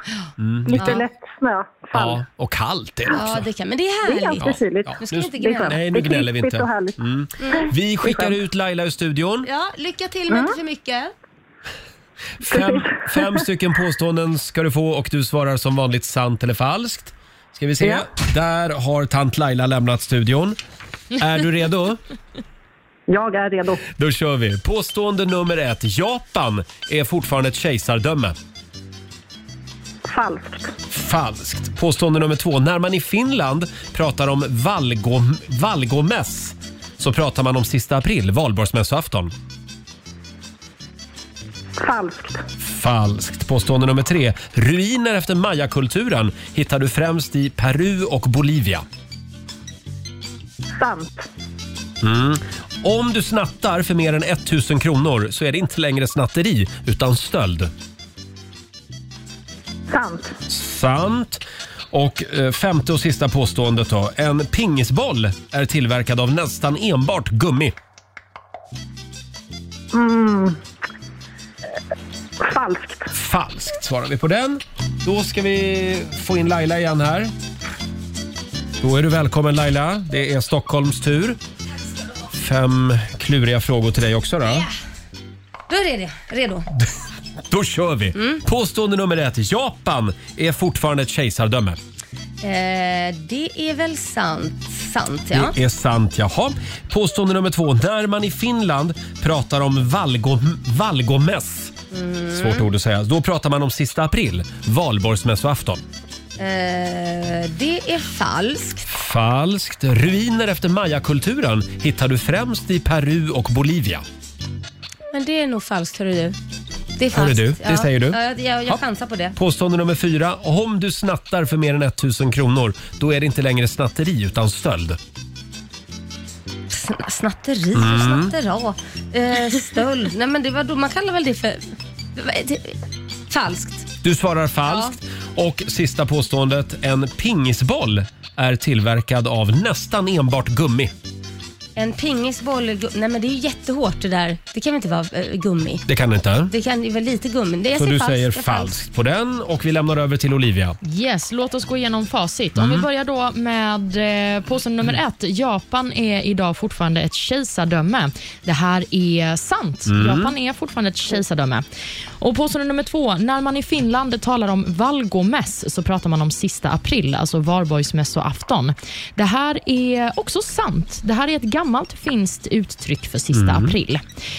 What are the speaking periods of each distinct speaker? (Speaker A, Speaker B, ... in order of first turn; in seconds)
Speaker A: 0.4-1.0, 1.9-3.5, 4.4-9.5, 12.4-20.6, 21.1-22.0, 23.9-28.4, 30.9-39.3, 42.6-48.8, 52.0-57.7, 60.5-67.8, 73.1-77.3, 78.8-81.4, 82.3-84.7, 87.5-91.8, 95.3-101.8, 102.3-105.8, 108.9-114.0, 117.1-118.8, 119.3-125.0, 127.7-128.3, 134.0-140.9, 145.8-146.5, 147.7-150.8, 152.6-152.8, 159.9-160.3, 173.3-173.8
Speaker B: 0.7-2.2, 4.0-7.0, 7.5-8.3, 10.3-10.6, 12.5-13.3, 17.8-18.1, 23.1-23.8, 30.1-30.7, 41.8-42.4, 50.8-51.3, 59.9-60.3, 69.9-70.6, 72.4-73.1
Speaker C: 0.8-1.0, 3.1-5.8, 7.4-7.7, 9.4-11.1, 85.7-86.7, 88.2-88.4, 92.4-95.5, 101.9-102.7, 106.4-108.8, 115.1-116.4, 117.0-119.3, 126.7-131.6, 132.2-132.8, 133.3-133.9, 134.6-134.9, 141.8-145.8, 146.5-148.7
Speaker D: 150.8-161.6, 162.2-174.0